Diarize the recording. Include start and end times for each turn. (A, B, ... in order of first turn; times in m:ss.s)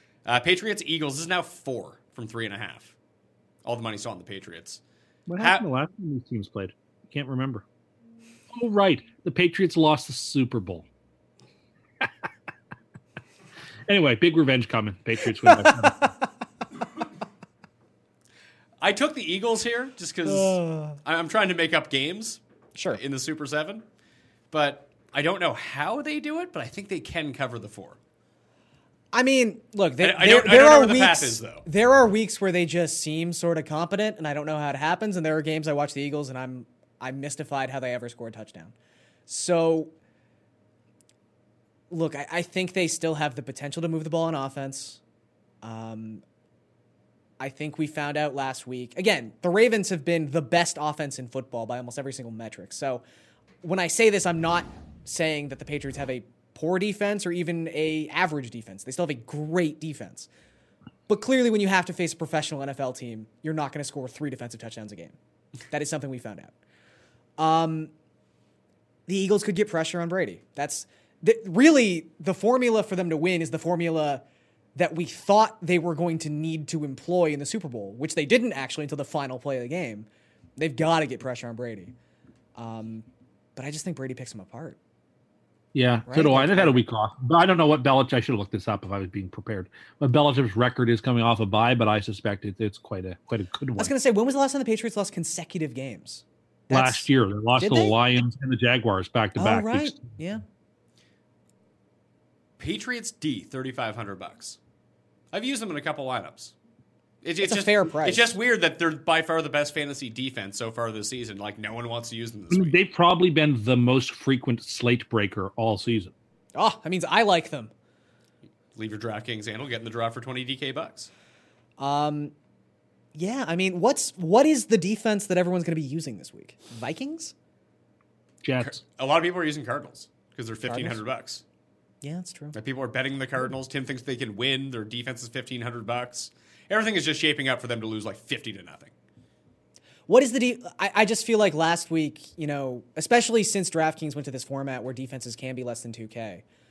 0:00.2-0:02.9 A
0:03.6-0:04.8 A
0:05.3-0:07.6 B
0:05.4-0:05.6 A
0:08.5-0:10.9 B
0:13.9-0:16.2 B
0:18.8-0:22.4 A
0:20.3-0:21.0 C
0:22.8-0:23.0 C
0:22.9-0:23.8 A
0:24.5-0:28.0 A
0:29.1-0:38.7 C
0:30.0-0:31.7 A
0:39.3-0:39.9 C
0:41.9-0:45.0 C
0:45.6-0:46.2 C
0:47.4-0:53.0 C
0:53.6-1:00.3 C
1:01.1-1:05.2 C
1:05.7-1:06.5 C
1:07.4-1:07.9 C
1:09.1-1:14.2 C
1:14.8-1:22.0 C
1:22.6-1:24.8 C
1:25.7-1:33.9 B
1:26.1-1:26.8 C
1:33.8-1:38.0 C
1:36.7-1:40.0 B
1:39.4-1:40.4 C
1:42.6-1:44.6 A
1:45.3-1:46.5 A
1:47.2-1:52.8 A
1:47.4-1:48.4 C
1:52.5-1:56.1 B
1:56.6-1:57.7 C
1:58.8-2:01.1 A
2:01.8-2:02.3 C
2:03.2-2:07.3 C
2:08.4-2:08.8 B
2:08.6-2:11.4 A
2:10.7-2:11.0 C
2:12.0-2:12.6 C
2:12.5-2:18.9 A
2:20.1-2:26.4 C